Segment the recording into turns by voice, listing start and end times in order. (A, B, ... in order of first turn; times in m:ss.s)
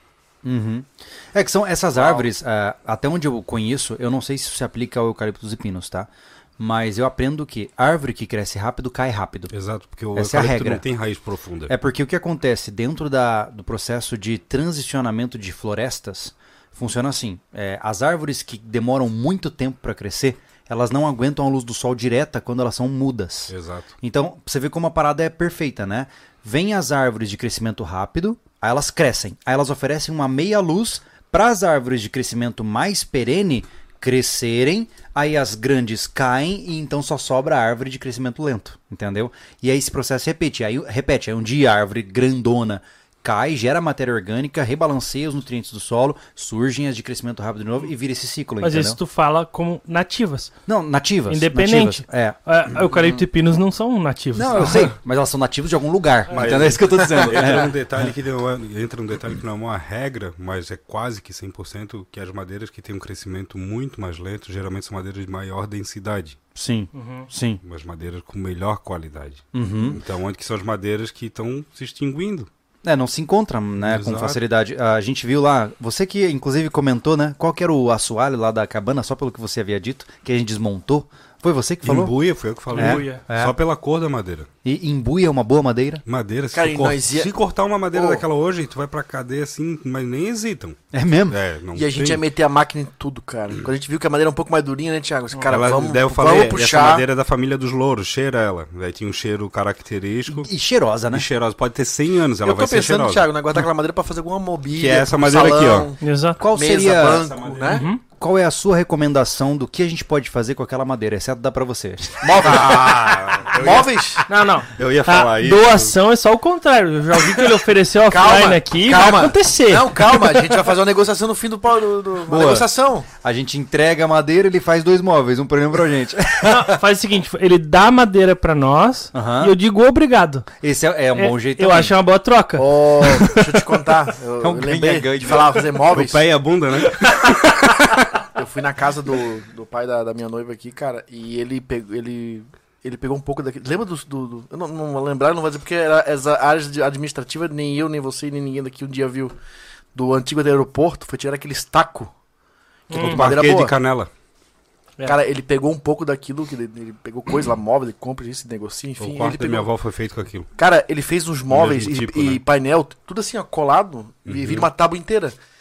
0:00.4-0:09.5 A
0:09.5-0:11.7 B
0:10.2-0:10.8 A
0:11.7-0:49.0 A
0:23.5-0:23.9 B
0:48.6-0:50.5 C
0:50.7-0:52.4 A
0:51.3-0:54.9 C
0:54.3-0:58.1 A
0:56.3-1:06.4 B
0:56.4-0:56.7 C
1:06.6-1:07.6 A
1:06.9-1:07.3 C
1:07.6-1:12.5 B
1:09.5-1:10.0 A
1:12.8-1:22.1 A
1:13.8-1:14.4 B
1:21.8-1:24.5 B
1:22.7-1:23.2 C
1:22.7-1:23.6 A
1:24.6-1:26.0 A
1:26.1-1:32.2 B
1:26.5-1:27.3 D
1:27.9-1:28.2 D
1:30.9-1:31.4 A
1:31.8-1:37.0 D
1:35.5-1:40.5 B
1:40.3-1:41.3 A
1:41.1-1:43.3 B
1:42.4-1:46.0 D
1:44.8-1:45.9 B
1:46.0-1:46.4 C
1:46.4-1:53.0 A
1:46.5-1:47.9 D
1:47.7-1:48.0 C
1:52.2-1:54.2 D
1:52.4-1:54.0 B
1:54.3-2:00.6 C
1:54.7-1:56.0 B
1:58.1-2:03.1 D
2:02.3-2:06.8 A
2:06.4-2:10.5 C
2:09.1-2:09.6 A
2:10.6-2:12.0 A
2:11.1-2:13.5 C
2:12.6-2:16.2 D
2:14.4-2:15.6 A
2:15.9-2:17.7 B
2:18.3-2:29.4 D
2:30.0-2:32.1 D
2:32.9-2:33.3 C
2:32.9-2:33.7 D
2:32.9-2:34.1 B
2:35.0-2:39.7 D
2:39.0-2:40.5 B
2:40.6-2:45.4 D
2:41.5-2:42.4 B
2:44.3-2:44.7 B